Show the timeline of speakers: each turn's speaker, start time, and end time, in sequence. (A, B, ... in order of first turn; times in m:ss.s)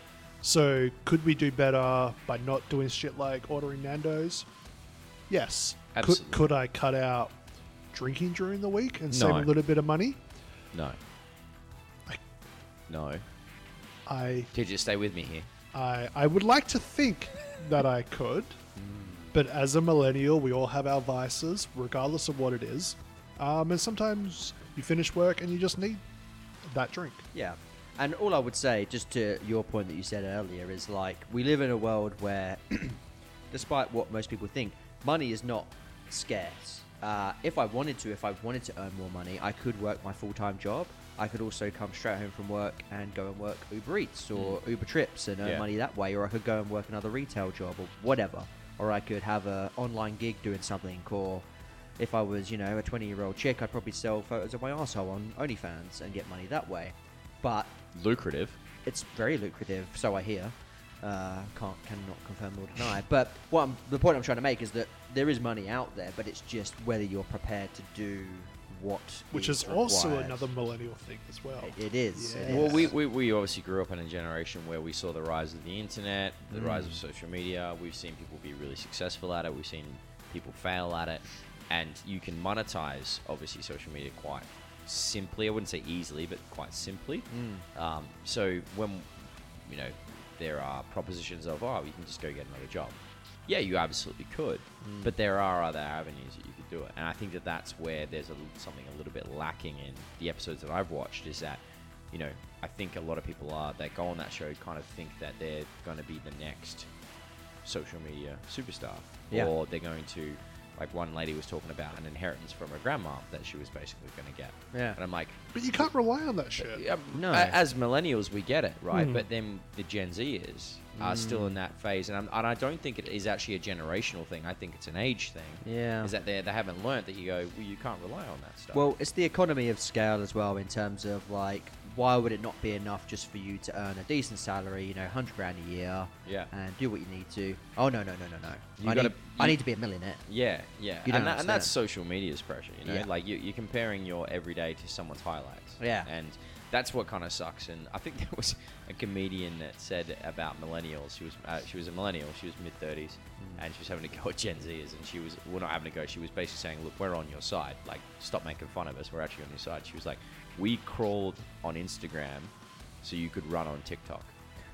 0:00.4-0:04.5 A
0:05.3-0:07.3 A
0:05.9-0:06.4 B
0:07.9-0:10.2 A
0:09.1-0:09.5 B
0:10.7-0:11.0 B
0:12.9-0:13.2 B
0:14.0-0:14.5 A
0:14.5-0:15.5 B
0:15.7-0:18.6 A
0:18.8-0:19.3 C
0:19.3-0:26.0 A
0:26.7-0:27.2 A
0:27.3-0:33.0 C
0:33.5-0:51.4 C
0:52.0-0:57.8 C
0:57.9-0:58.6 B
0:58.8-1:10.4 C
1:09.3-1:12.9 A
1:11.6-1:12.9 C
1:12.5-1:29.1 B
1:16.5-1:17.0 C
1:27.3-1:27.6 C
1:29.6-1:41.6 B
1:34.8-1:35.1 C
1:42.1-1:46.9 B
1:47.6-1:55.9 B
1:54.7-1:55.0 C
1:55.5-1:56.8 A
1:56.6-2:08.9 B
1:57.1-1:57.6 C
2:01.0-2:01.5 C
2:05.6-2:06.1 C
2:08.7-2:20.2 C
2:18.8-2:19.6 B
2:20.3-2:42.5 B
2:21.0-2:21.7 C
2:25.8-2:26.1 C
2:43.0-2:44.3 B